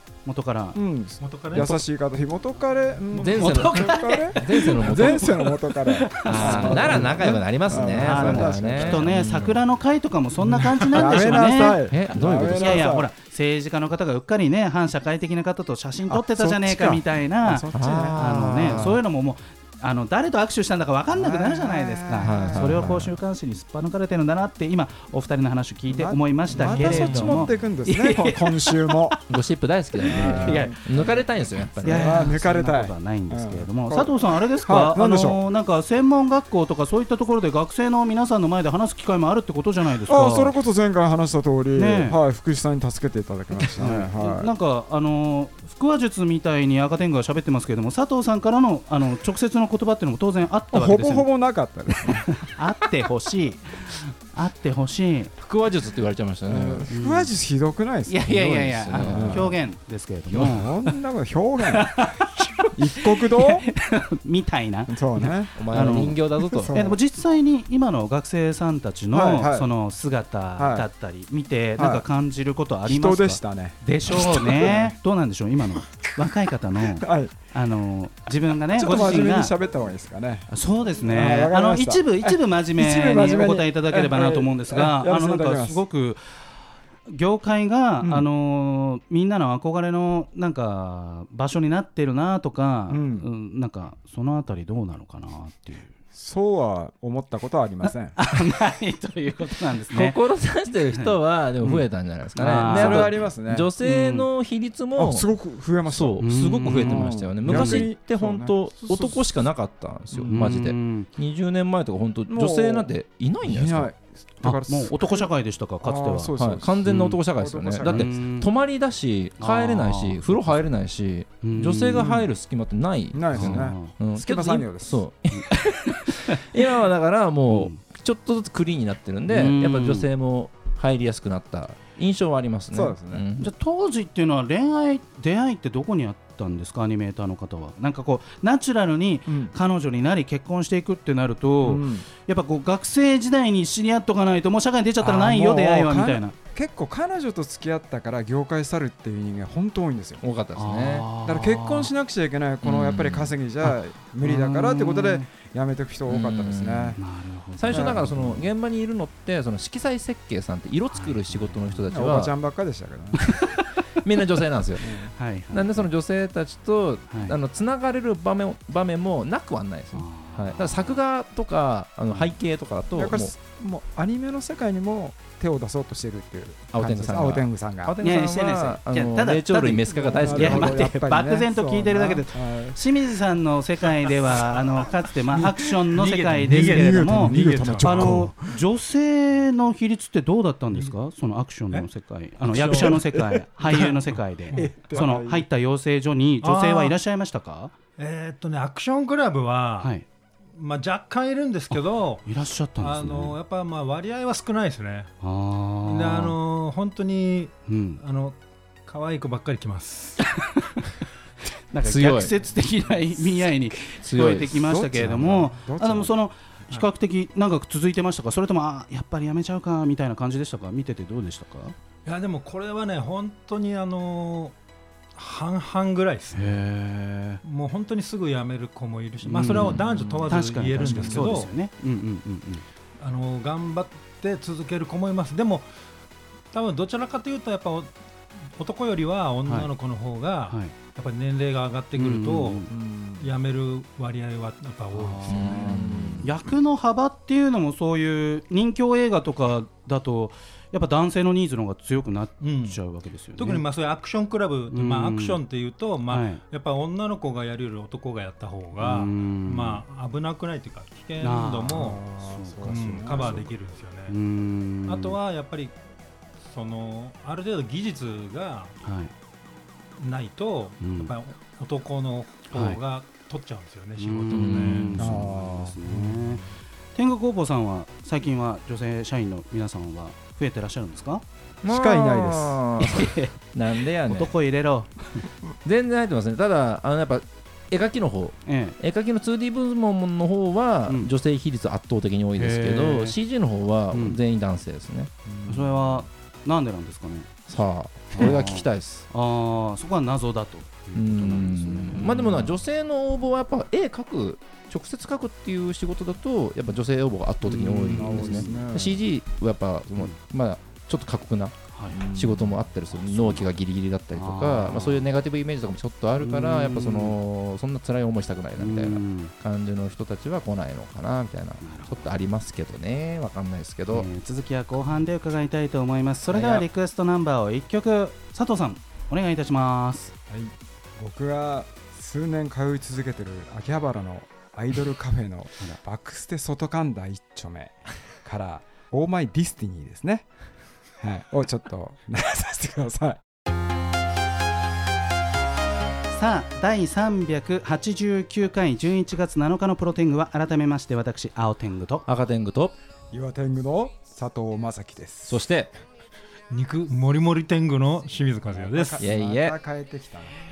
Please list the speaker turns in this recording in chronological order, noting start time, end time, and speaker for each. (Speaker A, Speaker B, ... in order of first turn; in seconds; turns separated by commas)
Speaker A: 0.3-0.8, Speaker B: 0.8-9.1, Speaker C: 1.2-1.8, Speaker C: 3.1-4.0, Speaker D: 3.2-5.4, Speaker A: 3.4-7.2, Speaker D: 6.2-9.6, Speaker A: 8.0-11.8, Speaker C: 10.5-11.1, Speaker B: 10.9-13.1, Speaker D: 11.9-12.9, Speaker A: 12.4-29.2, Speaker B: 16.1-19.0, Speaker D: 17.7-19.0, Speaker B: 21.1-23.0, Speaker D: 22.2-23.1, Speaker B: 25.9-29.2, Speaker D: 26.6-27.5, Speaker D: 29.3-32.3, Speaker A: 30.0-30.8, Speaker B: 30.0-31.3, Speaker A: 31.8-40.5, Speaker B: 31.8-35.4, Speaker B: 40.1-44.5, Speaker A: 41.8-42.2, Speaker A: 43.8-51.3, Speaker B: 50.7-52.5, Speaker A: 52.0-55.3, Speaker D: 55.4-56.9, Speaker B: 56.5-58.2, Speaker A: 56.9-57.3, Speaker A: 58.1-61.0, Speaker D: 58.2-59.5, Speaker B: 59.0-59.6, Speaker B: 60.3-62.1, Speaker A: 61.6-79.5, Speaker B: 62.8-63.7, Speaker B: 64.9-65.5, Speaker D: 65.5-66.7, Speaker B: 66.5-67.0, Speaker B: 69.1-69.7, Speaker B: 70.6-70.9, Speaker B: 71.8-72.0, Speaker B: 72.8-75.0, Speaker B: 76.8-77.3, Speaker B: 78.7-85.8, Speaker A: 80.5-86.2, Speaker A: 87.1-95.9, Speaker B: 88.0-88.3, Speaker B: 92.9-93.3, Speaker B: 96.1-98.2, Speaker A: 97.8-100.2, Speaker D: 99.9-105.3, Speaker A: 100.9-101.2, Speaker A: 102.4-103.2, Speaker B: 102.5-103.7, Speaker A: 103.8-104.2, Speaker B: 105.0-109.3, Speaker D: 105.9-113.9, Speaker A: 106.2-107.9, Speaker A: 110.2-111.1, Speaker B: 112.3-112.9, Speaker B: 113.4-115.3, Speaker A: 114.4-116.3, Speaker B: 115.8-118.1, Speaker D: 116.4-133.5, Speaker A: 116.8-117.2, Speaker A: 117.8-118.5, Speaker A: 119.4-120.4, Speaker A: 121.4-122.2, Speaker B: 122.0-122.3, Speaker B: 123.1-125.0, Speaker A: 123.3-123.9, Speaker A: 125.3-126.6, Speaker A: 127.5-127.8, Speaker A: 129.3-130.1, Speaker B: 132.7-133.2, Speaker A: 133.4-146.3, Speaker B: 139.3-139.5, Speaker B: 141.6-142.1, Speaker B: 145.0-150.2, Speaker D: 150.2-151.1, Speaker A: 150.6-151.9, Speaker B: 151.2-157.0, Speaker D: 152.6-153.3, Speaker A: 153.6-155.3, Speaker D: 156.1-157.0, Speaker A: 157.0-158.4, Speaker D: 157.6-162.3, Speaker B: 157.7-158.2, Speaker A: 160.9-161.9, Speaker B: 161.9-163.3, Speaker A: 163.2-163.9, Speaker D: 164.0-164.9, Speaker B: 164.8-165.1, Speaker A: 165.2-165.9, Speaker D: 165.5-173.3, Speaker A: 167.1-167.4, Speaker A: 169.9-171.0, Speaker B: 172.9-178.0, Speaker D: 176.7-180.9, Speaker A: 178.0-197.7, Speaker B: 179.9-182.8, Speaker C: 185.9-188.3, Speaker B: 186.3-188.6, Speaker C: 192.6-193.0, Speaker B: 192.8-193.4, Speaker C: 193.6-195.0, Speaker B: 194.5-195.4, Speaker C: 196.4-196.9, Speaker C: 198.0-199.9, Speaker A: 199.8-200.1, Speaker C: 200.6-205.1, Speaker A: 201.7-203.4, Speaker A: 205.2-206.3, Speaker C: 205.8-210.2, Speaker A: 207.7-208.0, Speaker A: 210.2-210.8, Speaker A: 211.7-221.8, Speaker D: 211.8-212.3, Speaker D: 213.9-214.5, Speaker B: 214.4-216.1, Speaker C: 222.1-224.6, Speaker C: 225.2-226.6, Speaker A: 226.3-227.4, Speaker C: 227.4-231.5, Speaker A: 229.2-232.6, Speaker B: 229.8-230.3, Speaker B: 230.8-231.3, Speaker C: 233.0-235.7, Speaker C: 236.5-237.9, Speaker C: 238.6-242.7, Speaker A: 242.0-242.7, Speaker B: 242.7-243.3, Speaker C: 243.2-245.7, Speaker A: 244.9-245.7, Speaker D: 245.3-246.3, Speaker B: 245.4-246.3, Speaker A: 246.2-253.6, Speaker C: 252.4-252.8, Speaker C: 253.4-262.0, Speaker A: 254.7-255.4, Speaker A: 256.1-256.4, Speaker A: 258.8-259.8, Speaker A: 261.2-263.4, Speaker B: 261.7-263.5, Speaker C: 262.6-264.2, Speaker A: 264.1-265.2, Speaker C: 264.9-265.8, Speaker C: 266.4-268.8, Speaker A: 268.8-269.1, Speaker C: 270.0-275.1, Speaker A: 270.8-271.1, Speaker A: 272.5-272.8, Speaker A: 274.0-276.4, Speaker D: 274.3-275.2, Speaker B: 275.0-276.4, Speaker A: 276.9-281.2, Speaker D: 281.6-284.3, Speaker B: 281.7-282.6, Speaker A: 282.8-283.4, Speaker A: 284.0-285.3, Speaker D: 285.6-295.1, Speaker A: 288.5-288.8, Speaker A: 290.9-291.1, Speaker A: 292.4-293.2, Speaker A: 293.9-294.2, Speaker B: 295.3-295.7, Speaker A: 295.5-297.3, Speaker D: 297.5-299.1, Speaker A: 298.1-302.4, Speaker D: 300.9-324.1, Speaker A: 307.4-308.7, Speaker B: 307.9-309.0, Speaker A: 311.7-312.1, Speaker B: 311.9-312.6, Speaker A: 313.2-313.4, Speaker A: 314.1-315.1, Speaker A: 316.2-317.2, Speaker A: 318.6-319.3, Speaker A: 321.6-322.1, Speaker A: 323.9-330.1, Speaker B: 330.3-340.3, Speaker B: 341.0-343.2, Speaker A: 346.1-352.1, Speaker D: 352.1-352.8, Speaker B: 353.1-355.4, Speaker D: 355.3-355.7, Speaker C: 356.5-359.0, Speaker B: 358.5-360.3, Speaker D: 359.0-359.6